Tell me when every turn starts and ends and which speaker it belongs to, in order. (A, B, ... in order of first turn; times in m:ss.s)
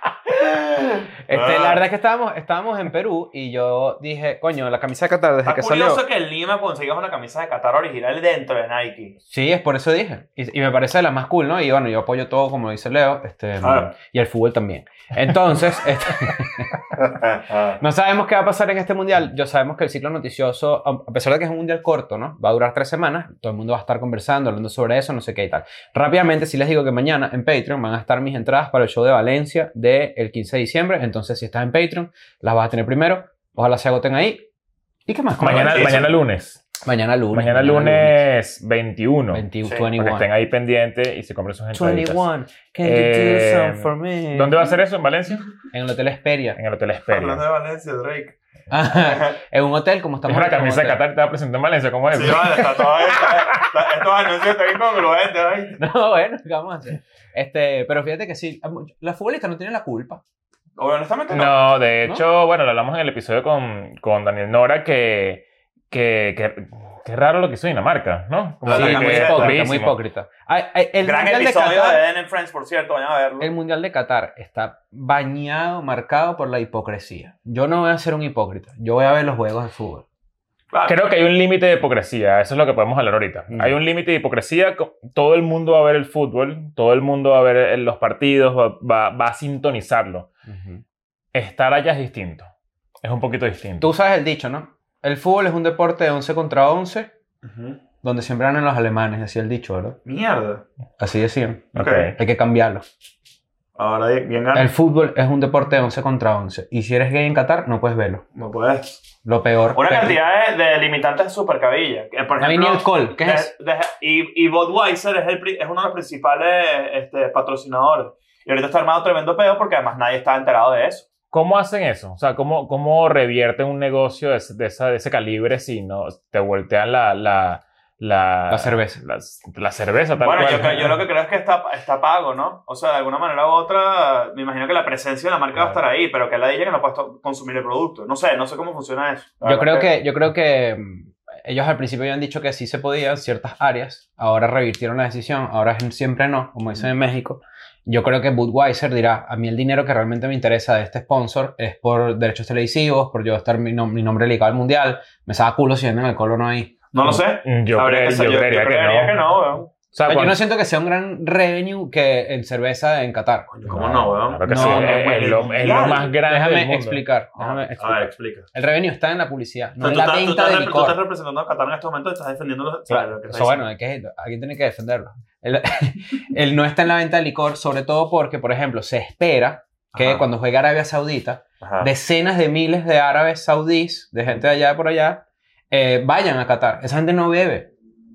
0:01.3-0:06.0 A
0:01.3-0:01.8 B
0:05.4-0:09.2 B
0:09.3-0:16.8 A
0:13.6-0:13.9 B
0:17.0-0:17.8 B
0:17.8-0:34.5 A
0:35.1-0:36.0 A
0:35.4-0:36.7 C
0:35.4-0:36.1 B
0:36.8-0:38.2 A
0:37.3-0:42.2 C
0:39.3-0:40.3 A
0:41.7-0:44.8 A
0:42.8-0:45.4 C
0:45.7-0:46.6 A
0:46.6-0:47.4 C
0:47.1-0:48.4 B
0:48.7-0:51.0 A
0:49.0-0:49.4 B
0:50.3-0:52.8 C
0:52.1-0:55.8 B
0:55.8-1:00.2 A
1:00.8-1:01.6 B
1:01.3-1:10.0 C
1:08.6-1:09.6 B
1:08.7-1:12.0 A
1:11.0-1:13.5 B
1:13.4-1:20.0 A
1:20.7-1:21.0 B
1:20.9-1:30.3 C
1:30.5-1:30.8 A
1:31.3-1:32.5 C
1:33.0-1:33.9 C
1:33.8-1:37.1 A
1:37.4-1:37.8 B
1:38.0-1:40.0 A
1:40.1-1:40.6 B
1:41.0-1:42.9 A
1:41.8-1:42.2 C
1:41.8-1:42.1 B
1:43.8-1:44.7 B
1:44.6-1:48.2 A
1:48.4-1:49.0 B
1:49.2-1:50.2 A
1:49.8-2:01.1 B
1:52.4-1:53.5 A
2:01.3-2:11.0 C
2:08.5-2:09.0 A
2:10.2-2:19.9 B
2:19.4-2:37.2 A
2:36.9-2:39.7 B
2:37.4-2:39.2 C
2:39.9-2:40.4 C
2:40.1-2:51.0 A
2:43.5-2:46.1 B
2:44.3-2:47.0 C
2:47.4-2:48.5 B
2:49.8-2:53.6 B
2:52.9-3:07.7 A
2:59.9-3:00.2 B
3:01.6-3:01.9 B